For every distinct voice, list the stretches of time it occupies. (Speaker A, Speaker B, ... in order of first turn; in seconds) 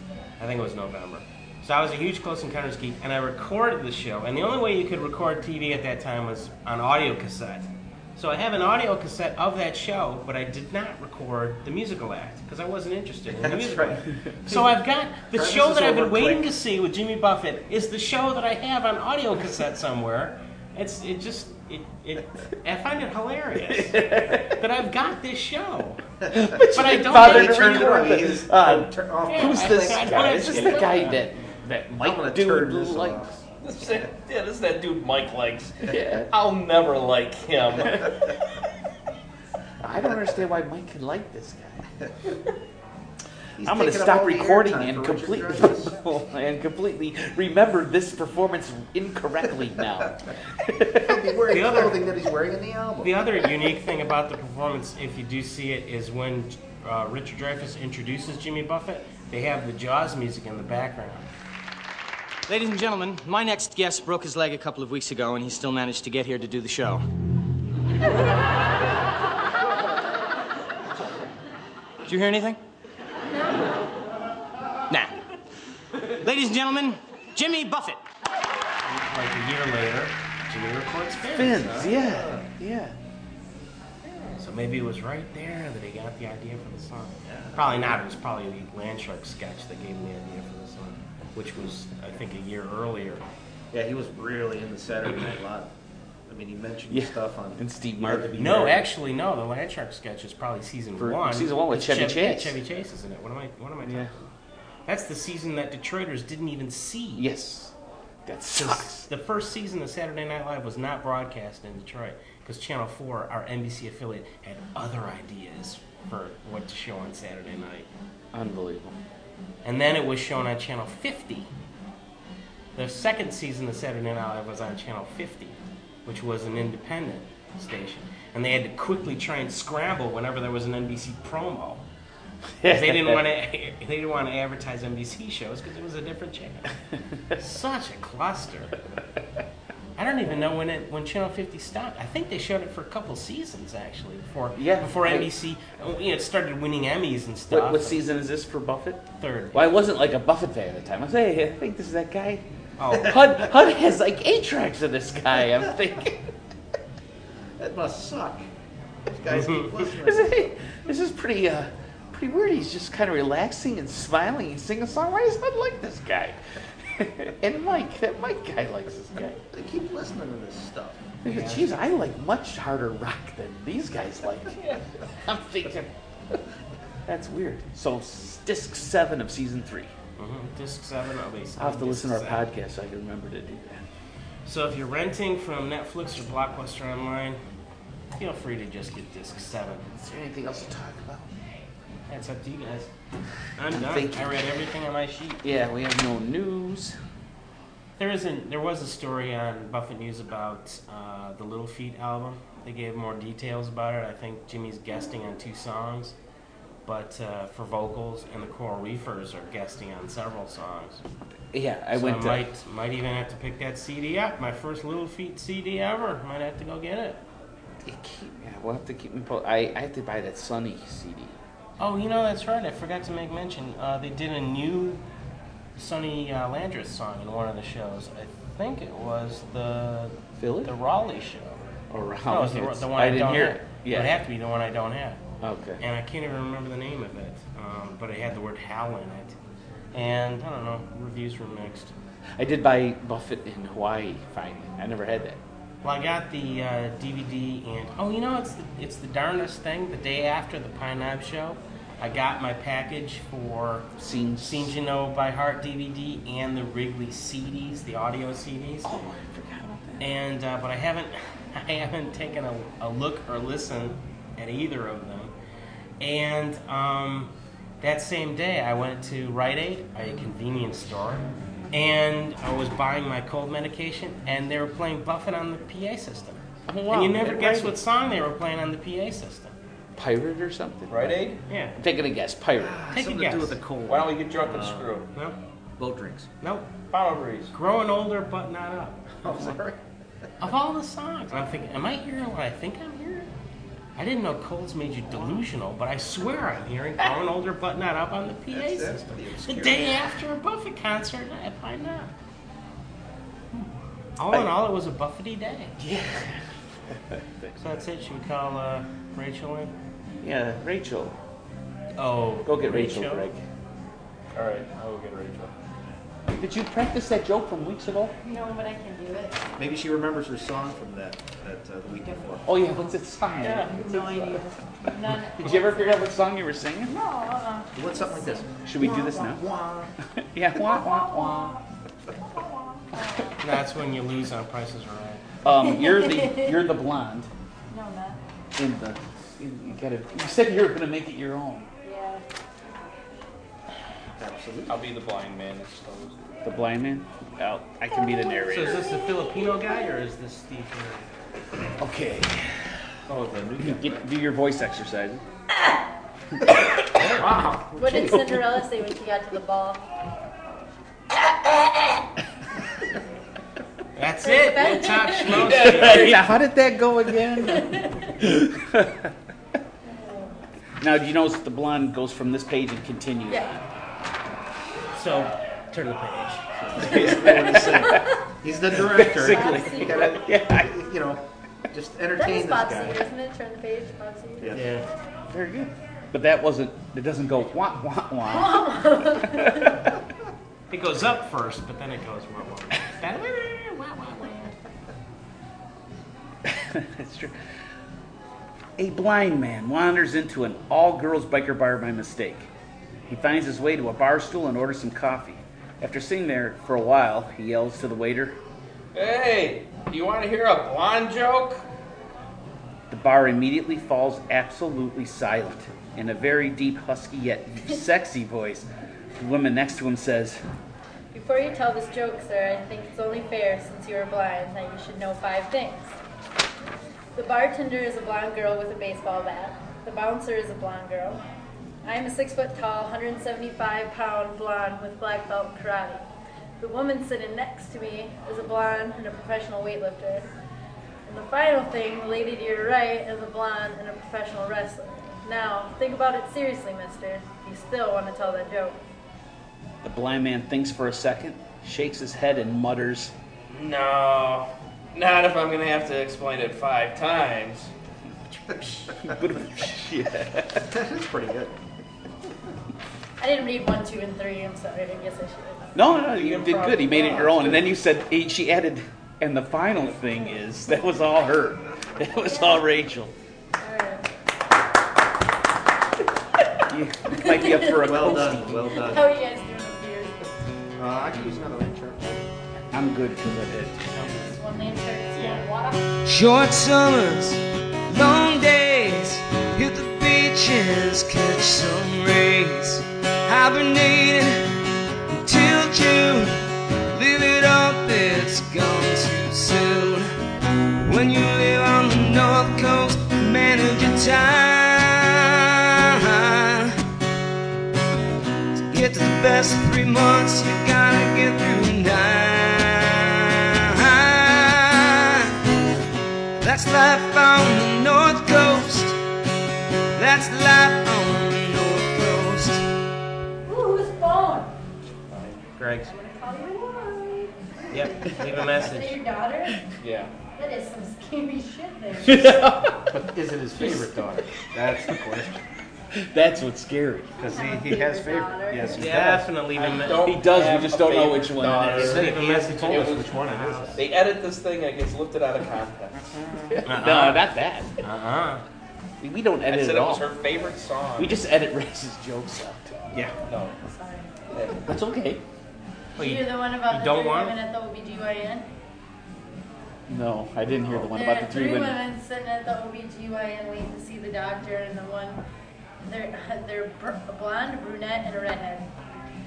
Speaker A: 0.4-26.0, 26.7-28.2, 29.3-31.2, 51.5-52.1, 53.0-61.3, 78.9-81.7, 84.4-93.2, 98.4-104.3, 104.9-107.3, 108.6-117.9, 119.6-121.5, 122.8-131.8, 132.7-136.7, 137.4-138.8, 140.0-148.0, 149.2-149.7, 152.8-153.2, 159.3-159.8, 171.3-171.8, 180.2-182.4, 184.5-187.4, 188.2-189.9, 192.1-192.9, 193.6-195.4, 198.0-206.2, 206.9-211.0, 211.9-217.2, 221.8-225.0, 225.8-231.8, 232.3-235.2, 235.8-239.4, 239.9-241.9, 245.8-258.9, 260.0-265.3, 266.0-279.5, 281.5-281.8, 282.9-283.6, 286.4-286.7, 287.5-289.1, 290.4-293.3, 294.0-302.1, 304.2-305.8, 307.6-309.7, 312.0-313.3, 333.4-335.2, 348.5-351.1, 363.9-366.2, 374.9-376.5, 384.5-384.9, 390.7-394.6, 525.6-525.9, 527.7-529.0, 538.7-540.1, 541.7-543.8, 546.6-547.2, 547.8-548.4, 556.0-557.3
Speaker B: 13.3-14.7, 15.3-16.4, 26.8-31.1, 32.0-33.9, 43.6-46.0, 51.0-53.2, 81.6-82.5, 84.0-84.4, 87.3-88.1, 93.7-95.7, 96.3-98.8, 157.6-158.4, 159.1-160.5, 169.5-171.1, 282.6-285.0, 285.8-286.3, 289.2-289.8, 298.5-300.0, 319.6-322.4, 327.8-329.9, 344.2-344.8, 353.1-354.1, 356.7-358.3, 376.6-383.0, 384.4-384.7, 460.7-461.6, 477.8-479.1, 480.8-482.2, 532.9-535.4, 537.2-539.3, 541.8-543.8
Speaker C: 23.7-24.6, 26.3-33.4, 35.8-36.3, 39.8-41.8, 43.6-51.3, 81.3-83.0, 96.9-98.6, 101.0-102.6, 103.8-104.1, 107.2-107.7, 108.3-109.1, 118.3-119.0, 132.6-133.2, 144.6-145.3, 147.5-149.0, 149.5-152.4, 153.0-156.2, 160.0-169.4, 171.2-175.9, 177.1-179.9, 181.6-183.8, 189.9-191.3, 193.7-194.4, 195.4-197.0, 211.5-212.4, 217.8-221.4, 230.4-230.7, 231.9-234.1, 235.4-235.8, 242.4-245.4, 254.0-254.7, 258.8-260.1, 276.7-277.8, 280.0-281.2, 281.8-282.8, 305.8-306.4, 307.1-307.5, 310.2-311.2, 312.4-313.4, 316.4-318.1, 322.5-324.5, 325.4-327.0, 328.6-329.4, 330.2-331.6, 335.4-337.3, 338.6-341.7, 346.4-348.9, 351.8-352.9, 353.6-355.2, 365.6-369.1, 370.8-373.6, 376.8-378.1, 378.8-380.7, 385.3-388.7, 389.2-389.9, 396.5-397.4, 398.8-402.5, 403.1-408.4, 412.9-420.4, 449.8-453.1, 459.0-460.7, 465.8-473.1, 476.7-478.8, 482.7-484.1, 532.0-532.9, 536.0-537.1, 540.0-542.1, 546.5-547.8, 549.0-550.1, 551.0-552.8, 554.6-555.2, 559.9-561.8
Speaker D: 33.6-38.1, 280.9-281.4, 283.9-285.1, 286.9-287.5, 314.3-315.5, 323.4-323.7, 344.7-346.3, 365.3-366.3, 408.9-411.6, 453.5-457.7, 466.0-467.7, 525.1-525.4, 529.8-530.1, 539.5-546.0, 549.5-551.2, 553.3-553.5, 554.3-554.6
Speaker E: 62.5-67.0, 72.1-72.6, 76.2-78.0
Speaker F: 318.2-319.4, 323.4-326.0, 326.9-328.5, 330.6-331.6, 332.3-333.4, 335.6-336.6, 337.7-338.2, 341.8-342.2, 357.8-359.8, 364.2-365.4, 367.4-368.2, 369.9-370.3, 373.3-373.6, 379.2-380.1, 382.2-384.5, 388.2-389.9, 421.1-425.9, 427.1-431.2, 431.8-436.1, 436.6-440.3, 441.1-448.8, 463.2-465.9, 472.3-472.6, 473.6-474.1, 477.2-477.9, 478.7-480.3, 484.0-485.9, 523.5-524.6, 525.8-529.6, 530.3-532.4, 537.3-538.8, 553.6-554.2, 556.0-558.5, 560.7-565.2, 565.9-568.7
Speaker G: 486.0-494.5, 495.1-500.1, 500.8-506.8, 508.6-515.4, 516.4-519.0, 520.0-522.6